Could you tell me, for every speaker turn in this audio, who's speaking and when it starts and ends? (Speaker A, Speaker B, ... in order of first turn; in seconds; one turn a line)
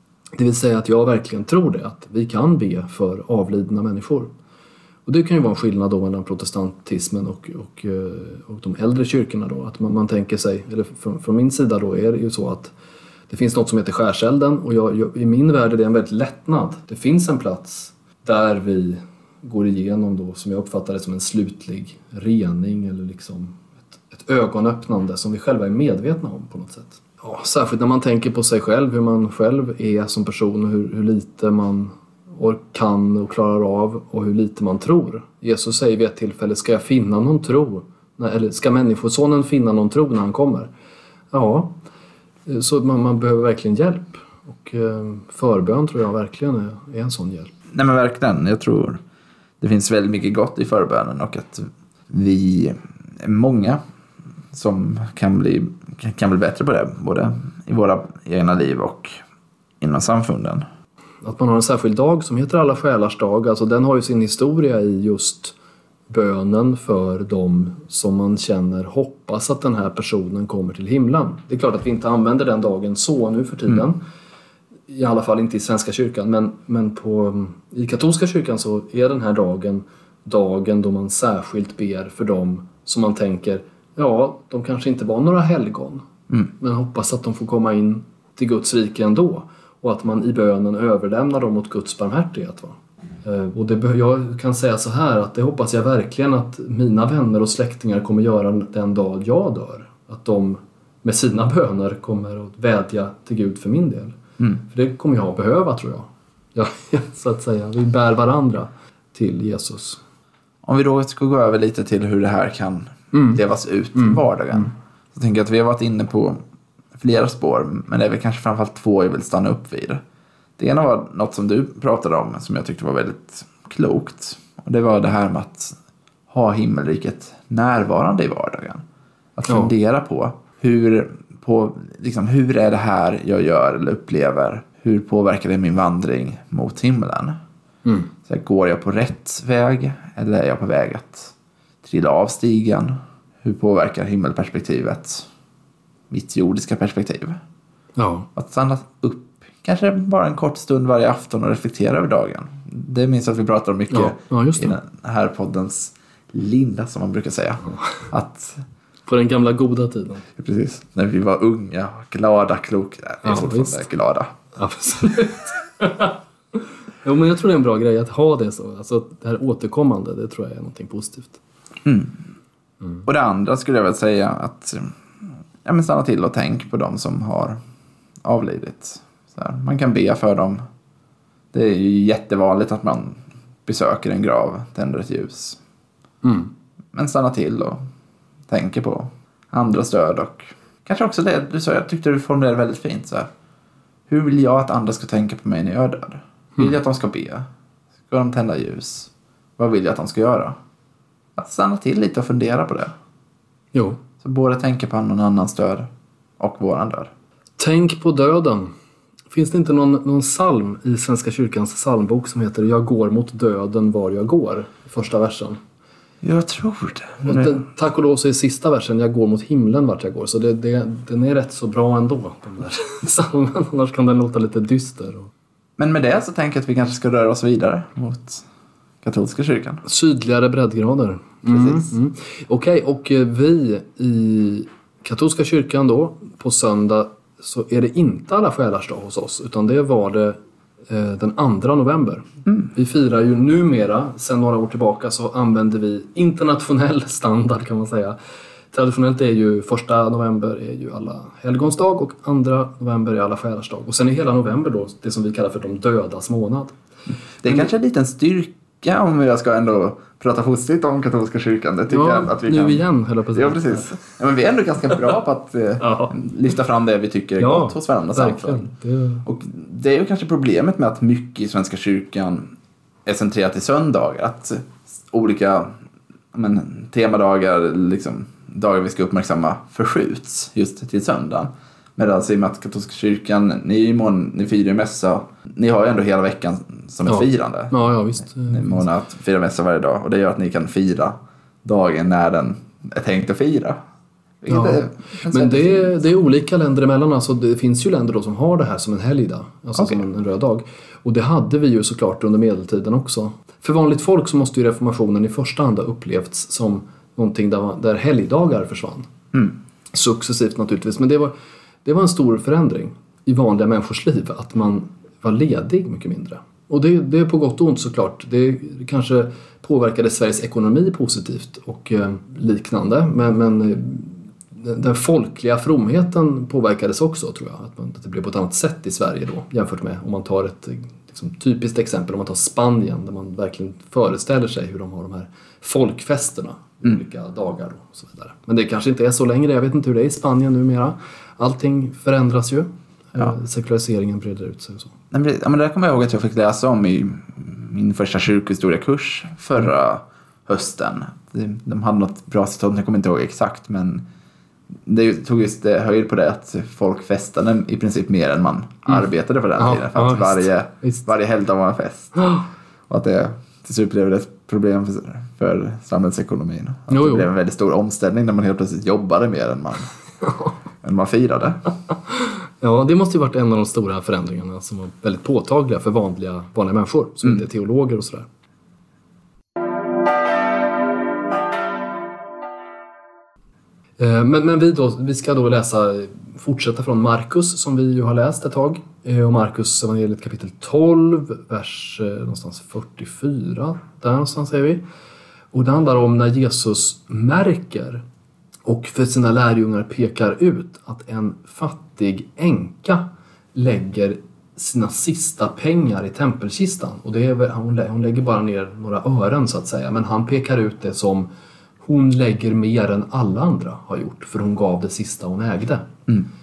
Speaker A: 0.4-4.3
Speaker A: 5.1-12.7
Speaker A: 13.3-40.7
Speaker A: 41.3-41.8
Speaker A: 42.5-47.5
Speaker B: 47.7-49.0
Speaker B: 49.6-53.8
Speaker B: 54.5-59.2
Speaker B: 59.8-60.7
Speaker A: 61.2-65.5
Speaker A: 66.1-74.0
Speaker A: 74.9-86.0
Speaker A: 86.6-110.0
Speaker B: 110.7-116.4
Speaker A: 113.1-113.4
Speaker B: 117.0-120.0
Speaker B: 120.6-125.8
Speaker B: 126.3-128.8
Speaker B: 129.4-137.4
Speaker A: 137.8-138.1
Speaker B: 138.3-141.3
Speaker B: 141.8-145.3
Speaker B: 146.1-147.4
Speaker A: 148.0-148.3
Speaker B: 148.3-158.6
Speaker A: 153.9-154.8
Speaker A: 159.1-160.3
Speaker B: 160.4-164.4
Speaker A: 163.2-163.8
Speaker A: 164.6-171.4
Speaker B: 171.8-172.2
Speaker B: 173.1-175.0
Speaker B: 175.7-177.6
Speaker B: 178.2-180.6
Speaker B: 181.5-185.6
Speaker A: 186.2-186.5
Speaker B: 186.9-187.8
Speaker B: 188.5-193.3
Speaker B: 194.1-197.5
Speaker B: 198.1-200.6
Speaker B: 201.4-202.9
Speaker A: 203.7-204.0
Speaker B: 204.2-205.9
Speaker B: 206.4-207.1
Speaker A: 207.6-208.7
Speaker A: 209.3-215.6
Speaker B: 216.2-217.5
Speaker A: 217.2-225.3
Speaker B: 225.8-228.4
Speaker B: 229.0-229.8
Speaker A: 229.8-248.2
Speaker A: 248.7-256.8
Speaker B: 257.4-268.6
Speaker A: 261.9-264.0
Speaker A: 265.8-266.1
Speaker A: 267.4-269.2
Speaker B: 269.2-272.5
Speaker B: 273.1-275.8
Speaker B: 276.3-293.8
Speaker A: 287.1-288.8
Speaker B: 294.4-295.9
Speaker A: 294.5-309.1
Speaker A: 309.9-311.3
Speaker A: 311.8-344.9
Speaker B: 345.1-354.1
Speaker B: 354.9-362.3
Speaker A: 359.6-361.1
Speaker A: 362.2-362.4
Speaker B: 362.9-369.9
Speaker A: 366.9-367.3
Speaker B: 370.8-371.7
Speaker A: 372.1-378.3
Speaker A: 384.0-394.8
Speaker A: 395.5-398.0
Speaker A: 398.6-411.3
Speaker A: 411.8-415.9